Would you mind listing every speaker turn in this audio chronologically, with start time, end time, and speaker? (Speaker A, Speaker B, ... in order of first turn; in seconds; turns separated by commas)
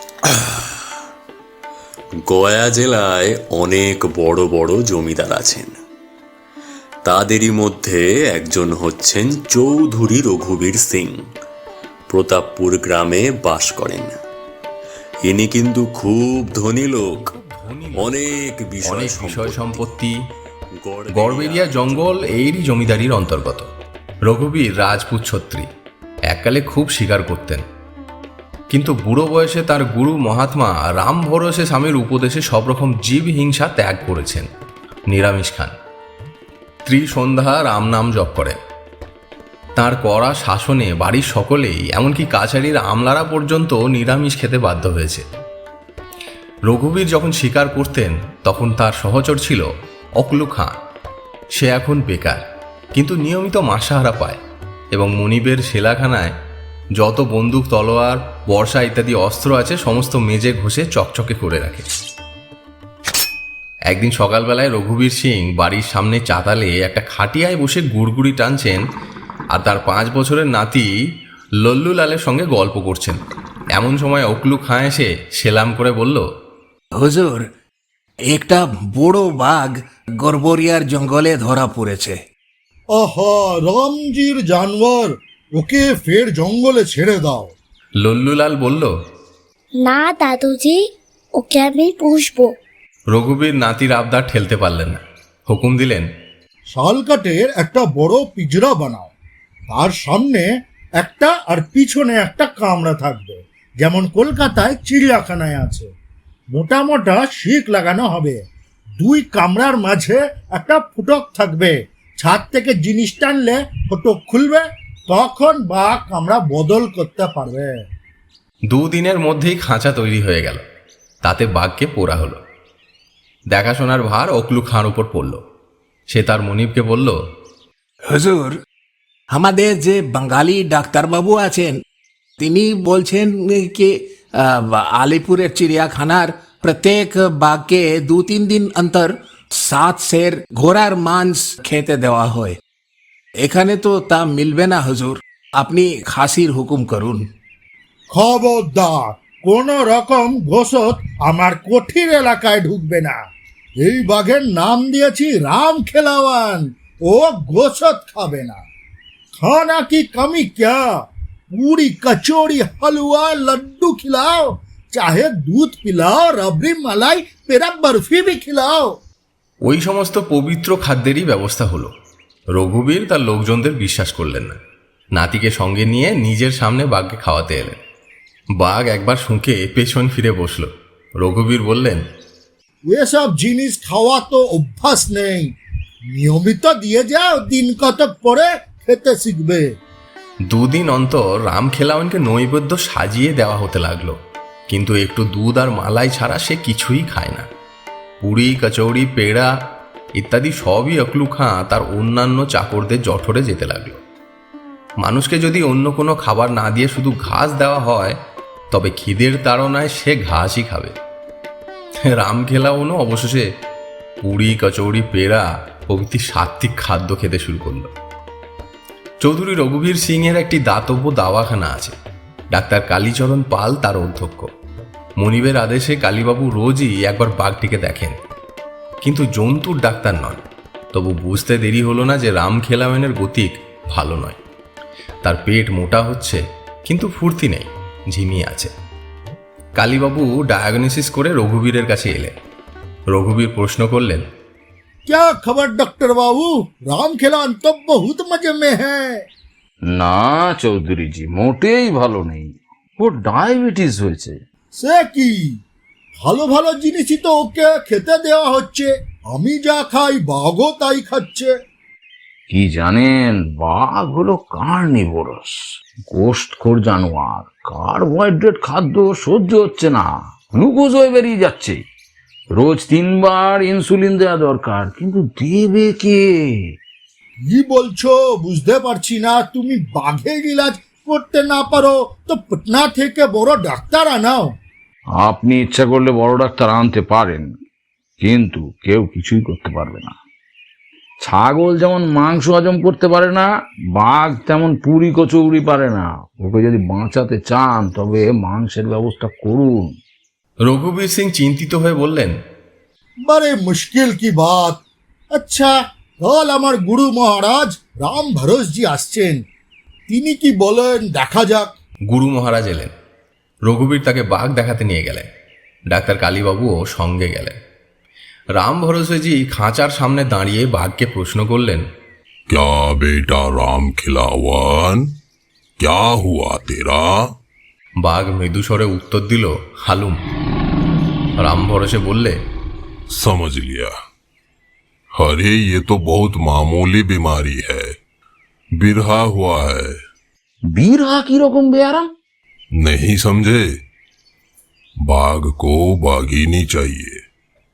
Speaker A: 2.3-5.8, Speaker A: 7.0-11.2, Speaker A: 12.1-14.2, Speaker A: 15.2-17.3, Speaker B: 17.2-18.2, Speaker A: 18.0-19.8, Speaker B: 18.8-20.1, Speaker A: 20.8-22.2, Speaker B: 21.1-23.7, Speaker B: 24.3-25.7, Speaker B: 26.3-27.6, Speaker B: 28.7-34.5, Speaker B: 35.1-35.7, Speaker B: 36.9-38.6, Speaker B: 39.8-45.2, Speaker B: 46.7-49.7, Speaker B: 50.2-50.7, Speaker B: 51.6-52.4, Speaker B: 52.9-54.4, Speaker B: 54.9-56.3, Speaker B: 57.0-61.8, Speaker B: 63.9-68.8, Speaker B: 69.5-70.9, Speaker B: 71.6-73.2, Speaker B: 73.7-76.2, Speaker C: 77.0-77.4, Speaker C: 78.3-82.2, Speaker D: 82.9-87.5, Speaker B: 88.0-88.9, Speaker E: 89.8-90.8, Speaker E: 91.3-92.5, Speaker B: 93.1-96.1, Speaker D: 96.7-99.1, Speaker D: 99.7-100.5, Speaker D: 101.0-105.9, Speaker D: 106.5-108.4, Speaker D: 109.0-117.7, Speaker B: 118.7-120.6, Speaker B: 121.2-122.4, Speaker B: 123.5-125.4, Speaker B: 126.1-127.2, Speaker C: 128.1-128.6, Speaker C: 129.3-131.8, Speaker C: 132.4-133.9, Speaker C: 134.4-142.6, Speaker C: 143.4-147.3, Speaker D: 148.1-153.2, Speaker D: 153.8-158.6, Speaker D: 159.4-160.8, Speaker D: 161.5-168.9, Speaker B: 169.6-171.9, Speaker B: 172.5-174.6, Speaker B: 175.1-177.8, Speaker B: 178.6-182.0, Speaker D: 182.9-185.5, Speaker D: 186.1-189.7, Speaker B: 190.5-194.2, Speaker B: 194.7-197.4, Speaker B: 198.2-199.5, Speaker B: 200.2-204.0, Speaker B: 205.0-208.2, Speaker B: 208.7-210.9, Speaker B: 212.1-213.4, Speaker B: 214.2-217.9, Speaker B: 219.2-221.9, Speaker B: 222.5-224.5, Speaker B: 225.2-228.2, Speaker B: 229.0-230.4, Speaker B: 230.9-234.4, Speaker B: 235.2-238.7, Speaker B: 239.8-242.3, Speaker B: 243.1-244.2, Speaker D: 245.1-249.2, Speaker F: 249.9-254.3, Speaker D: 254.7-255.4, Speaker D: 256.2-261.5, Speaker F: 262.5-265.5, Speaker F: 266.1-271.8, Speaker F: 272.6-276.6, Speaker D: 277.4-284.5, Speaker F: 285.2-287.5, Speaker F: 288.2-290.1, Speaker F: 291.2-299.9, Speaker B: 300.7-302.4, Speaker D: 303.2-304.8, Speaker D: 305.3-309.4, Speaker D: 310.1-311.7, Speaker B: 312.1-312.9, Speaker B: 313.7-315.3, Speaker B: 315.9-317.6, Speaker B: 318.6-321.8, Speaker G: 322.5-325.1, Speaker G: 325.8-327.2, Speaker B: 328.0-330.2, Speaker B: 331.4-332.4, Speaker G: 333.1-333.9, Speaker G: 335.1-337.9, Speaker G: 338.8-339.9, Speaker F: 340.7-342.1, Speaker G: 342.8-343.6, Speaker G: 345.1-347.2